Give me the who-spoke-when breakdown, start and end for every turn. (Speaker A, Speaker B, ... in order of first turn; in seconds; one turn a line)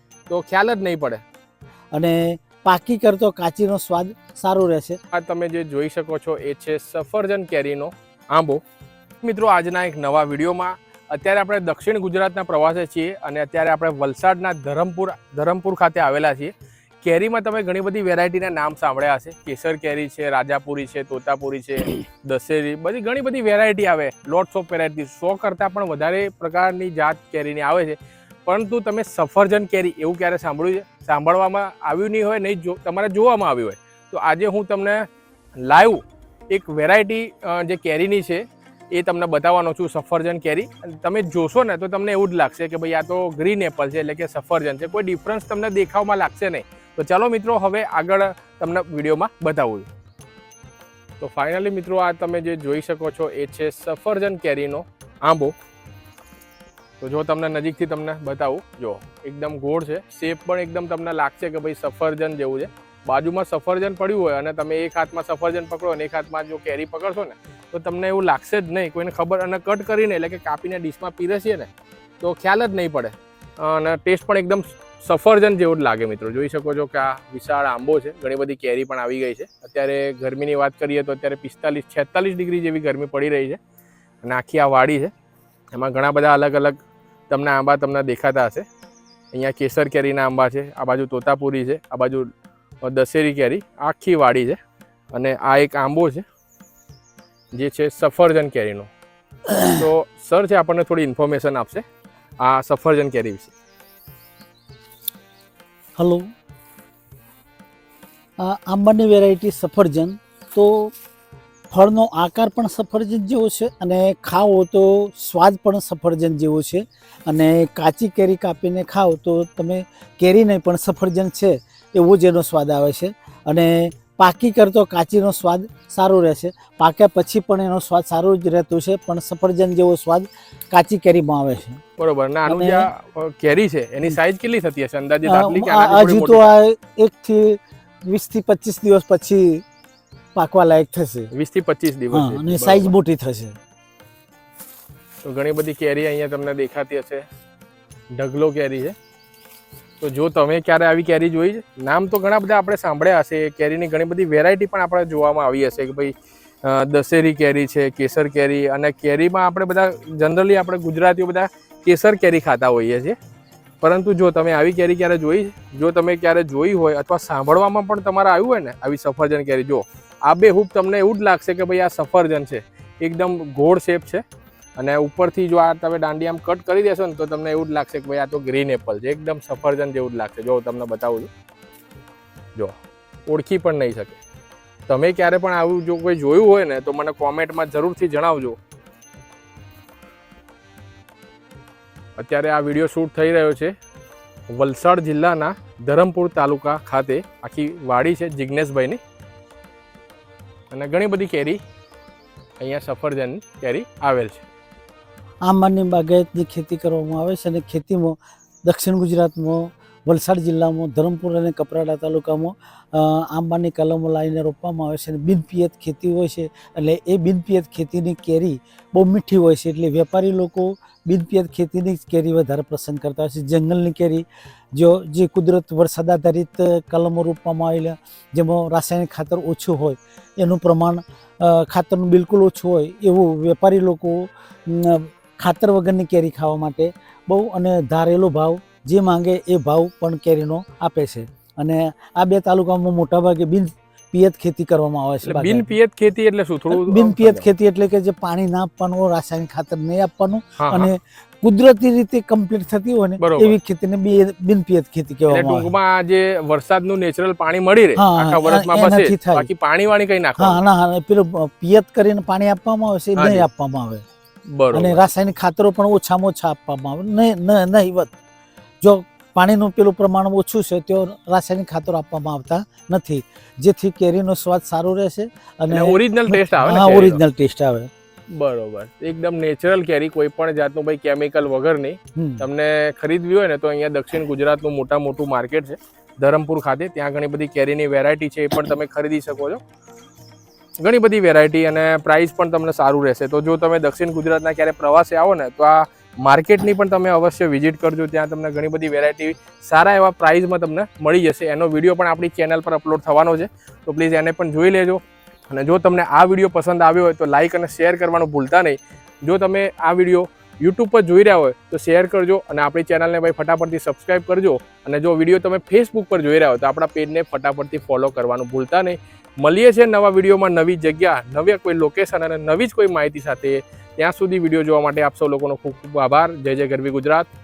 Speaker A: 0.3-1.2
Speaker B: 1.9-5.0
Speaker A: 5.1-8.6
Speaker A: 9.2-35.1
Speaker A: 35.6-49.9
Speaker A: 51.2-55.5
Speaker A: 57.0-71.7
Speaker A: 72.2-83.6
Speaker A: 84.2-85.1
Speaker A: 85.7-86.8
Speaker A: 87.3-88.7
Speaker A: 89.3-92.3
Speaker A: 92.8-94.6
Speaker A: 95.1-96.2
Speaker A: 97.5-98.9
Speaker B: 99.5-99.8
Speaker A: 99.8-101.8
Speaker A: 102.4-103.5
Speaker B: 106.0-106.2
Speaker B: 108.4-110.9
Speaker B: 111.7-131.8
Speaker A: 132.0-136.5
Speaker B: 132.5-132.9
Speaker B: 135.2-139.6
Speaker B: 140.4-141.3
Speaker A: 141.3-142.9
Speaker B: 142.1-143.6
Speaker A: 145.2-147.2
Speaker A: 148.2-148.9
Speaker A: 150.0-163.2
Speaker A: 163.8-174.2
Speaker A: 174.8-181.3
Speaker A: 182.6-184.2
Speaker A: 184.9-188.6
Speaker A: 192.2-193.7
Speaker A: 194.5-199.0
Speaker A: 200.7-201.6
Speaker A: 202.6-204.4
Speaker B: 205.5-245.7
Speaker A: 245.2-247.5
Speaker B: 246.7-255.7
Speaker A: 250.6-250.9
Speaker A: 253.2-253.6
Speaker A: 255.3-260.6
Speaker B: 258.0-259.5
Speaker B: 260.4-264.0
Speaker A: 263.2-263.5
Speaker A: 264.5-265.0
Speaker B: 264.7-268.1
Speaker B: 268.8-277.9
Speaker A: 275.7-277.2
Speaker A: 278.4-289.6
Speaker B: 282.2-282.5
Speaker A: 290.8-327.3